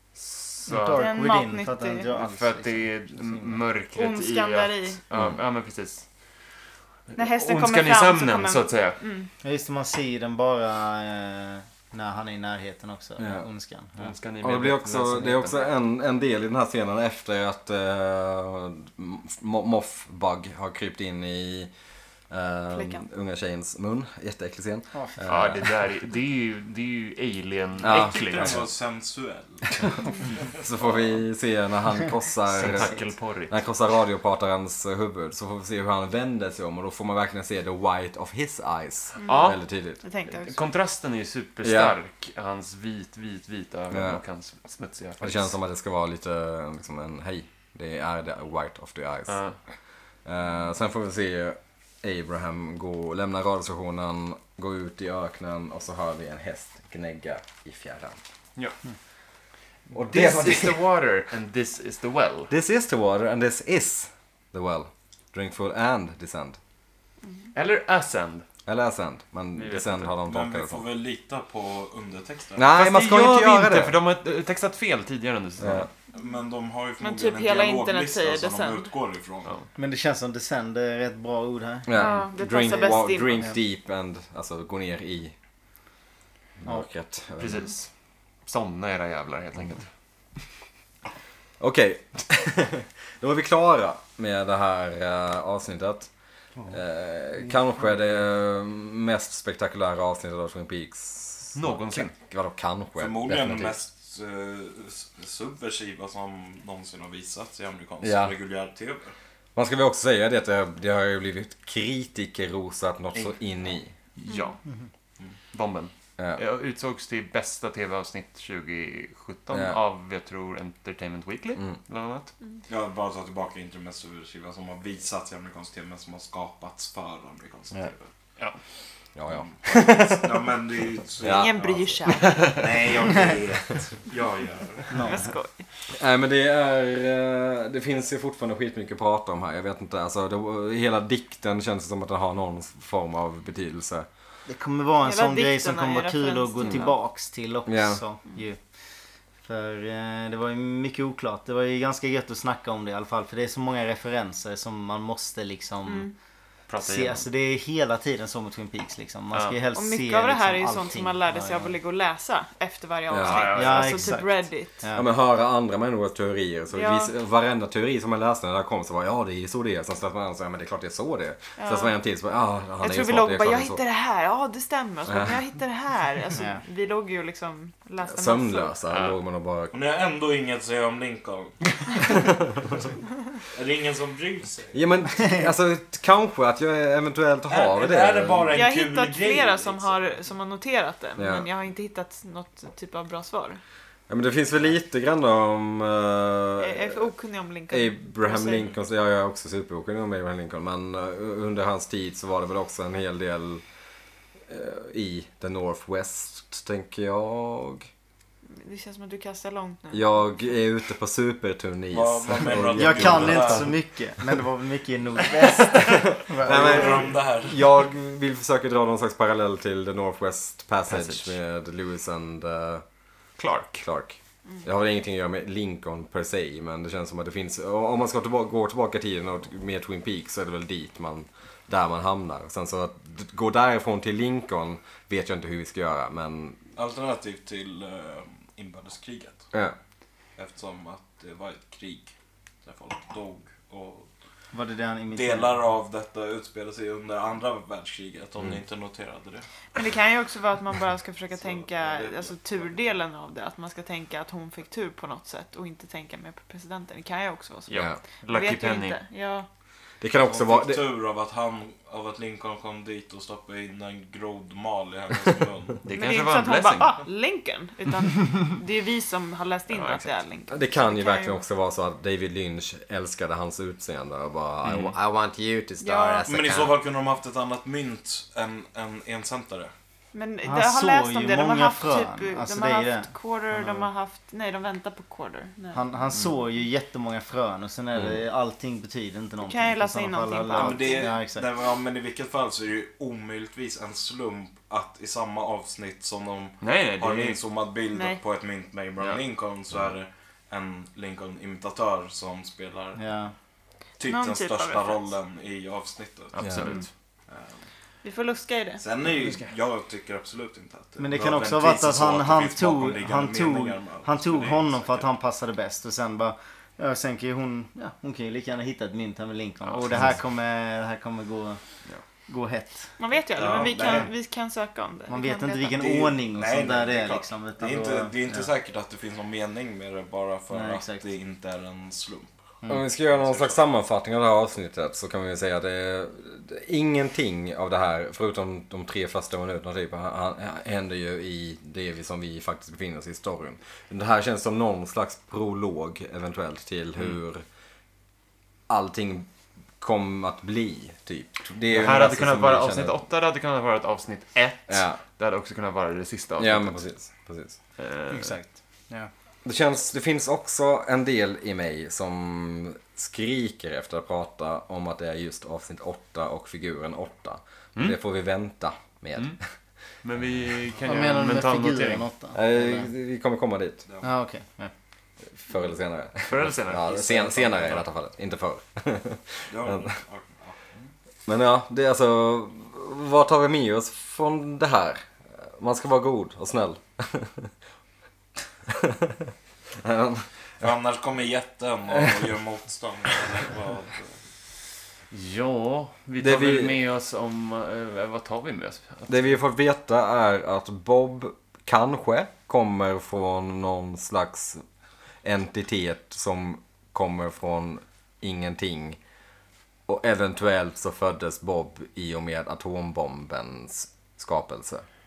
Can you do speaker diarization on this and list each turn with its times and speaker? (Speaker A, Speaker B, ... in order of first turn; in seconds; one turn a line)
Speaker A: 0.5-1.1
Speaker B: 0.6-3.6
Speaker C: 0.9-2.1
Speaker A: 2.1-6.0
Speaker C: 3.9-5.0
Speaker A: 7.1-9.0
Speaker C: 7.2-9.3
Speaker B: 9.4-14.1
Speaker D: 13.2-13.4
Speaker A: 14.0-15.6
Speaker D: 14.4-21.7
Speaker D: 22.3-25.8
Speaker C: 22.7-23.0
Speaker A: 25.2-28.6
Speaker D: 27.8-28.6
Speaker E: 27.8-30.9
Speaker D: 30.6-40.0
Speaker A: 32.5-33.5
Speaker C: 39.2-40.5
Speaker A: 39.2-39.6
Speaker A: 40.3-45.5
Speaker D: 41.6-41.9
Speaker D: 43.9-44.2
Speaker D: 45.2-49.4
Speaker A: 49.3-49.6
Speaker D: 50.2-58.2
Speaker D: 59.9-60.8
Speaker A: 60.0-62.5
Speaker D: 62.5-66.6
Speaker A: 67.5-68.4
Speaker D: 68.7-70.8
Speaker A: 69.5-70.1
Speaker E: 70.2-72.6
Speaker D: 72.5-74.0
Speaker A: 72.7-75.9
Speaker D: 75.6-75.9
Speaker E: 76.1-79.5
Speaker C: 77.0-78.9
Speaker B: 79.8-81.9
Speaker D: 81.9-85.3
Speaker C: 82.0-83.5
Speaker D: 86.6-87.6
Speaker A: 87.4-87.9
Speaker A: 88.5-89.9
Speaker D: 91.6-96.1
Speaker D: 96.7-103.8
Speaker A: 101.5-102.1
Speaker E: 103.0-109.1
Speaker D: 108.0-108.3
Speaker D: 109.5-113.9
Speaker A: 114.2-114.6
Speaker C: 114.3-114.6
Speaker A: 115.5-122.3
Speaker D: 119.5-119.8
Speaker E: 122.7-128.1
Speaker D: 129.1-130.5
Speaker E: 129.3-135.0
Speaker D: 131.2-131.7
Speaker C: 131.3-132.5
Speaker B: 134.9-135.3
Speaker C: 135.0-135.7
Speaker D: 135.9-144.1
Speaker B: 144.4-148.6
Speaker C: 145.0-147.0
Speaker D: 147.7-148.0
Speaker B: 149.4-156.1
Speaker C: 155.8-156.1
Speaker A: 156.7-157.2
Speaker B: 156.8-161.7
Speaker A: 159.3-159.6
Speaker C: 159.7-164.8
Speaker D: 163.1-163.5
Speaker A: 163.2-164.0
Speaker B: 163.5-165.1
Speaker D: 164.9-173.8
Speaker C: 166.7-167.1
Speaker C: 171.6-171.9
Speaker C: 172.8-178.8
Speaker D: 175.1-175.3
Speaker B: 176.3-176.6
Speaker D: 178.1-179.7
Speaker A: 178.9-179.1
Speaker E: 179.7-182.2
Speaker E: 183.5-184.8
Speaker D: 184.7-188.5
Speaker E: 187.5-190.0
Speaker C: 188.5-193.6
Speaker D: 191.2-191.5
Speaker D: 194.1-197.1
Speaker C: 196.6-198.7
Speaker D: 197.7-203.6
Speaker D: 204.5-207.9
Speaker C: 208.5-210.1
Speaker D: 209.9-213.7
Speaker E: 211.9-213.7
Speaker B: 212.7-217.0
Speaker D: 215.7-222.8
Speaker E: 216.4-217.6
Speaker A: 220.9-221.3
Speaker A: 223.4-223.8
Speaker D: 223.8-236.6
Speaker E: 236.7-239.5
Speaker E: 240.4-242.1
Speaker E: 242.6-244.1
Speaker B: 244.5-245.6
Speaker E: 245.1-249.5
Speaker C: 249.7-259.5
Speaker E: 251.3-252.7
Speaker A: 257.7-259.0
Speaker D: 260.0-260.9
Speaker E: 260.2-265.8
Speaker A: 265.8-267.0
Speaker C: 265.9-271.4
Speaker A: 269.7-270.1
Speaker D: 270.5-276.8
Speaker A: 274.6-274.9
Speaker C: 275.8-276.3
Speaker E: 276.3-279.7
Speaker C: 280.1-285.8
Speaker B: 280.4-283.8
Speaker B: 285.7-291.4
Speaker C: 289.4-291.1
Speaker E: 290.6-303.0
Speaker A: 296.6-297.4
Speaker C: 297.9-298.2
Speaker B: 302.9-303.3
Speaker E: 304.0-306.4
Speaker C: 304.0-305.1
Speaker A: 306.3-306.9
Speaker D: 306.4-306.7
Speaker E: 307.3-307.6
Speaker C: 308.0-308.8
Speaker E: 308.8-315.1
Speaker A: 309.2-309.5
Speaker B: 311.0-321.6
Speaker B: 322.3-323.0
Speaker C: 323.0-325.8
Speaker E: 323.4-324.1
Speaker B: 325.1-328.5
Speaker E: 325.8-332.3
Speaker B: 330.5-331.0
Speaker D: 332.7-347.4
Speaker E: 333.1-333.6
Speaker D: 348.7-349.3
Speaker D: 349.8-352.9
Speaker A: 351.7-356.8
Speaker D: 354.7-355.0
Speaker D: 356.4-357.6
Speaker A: 357.8-358.4
Speaker B: 358.1-359.1
Speaker D: 359.4-369.4
Speaker A: 370.0-372.1
Speaker B: 370.9-372.9
Speaker D: 372.3-373.8
Speaker B: 374.0-374.7
Speaker D: 375.3-379.9
Speaker A: 376.2-377.9
Speaker E: 379.5-380.6
Speaker D: 381.3-387.5
Speaker D: 388.7-390.3
Speaker E: 390.6-394.1
Speaker A: 395.1-399.3
Speaker D: 396.2-396.8
Speaker D: 399.1-404.6
Speaker D: 405.2-409.0
Speaker D: 409.9-414.9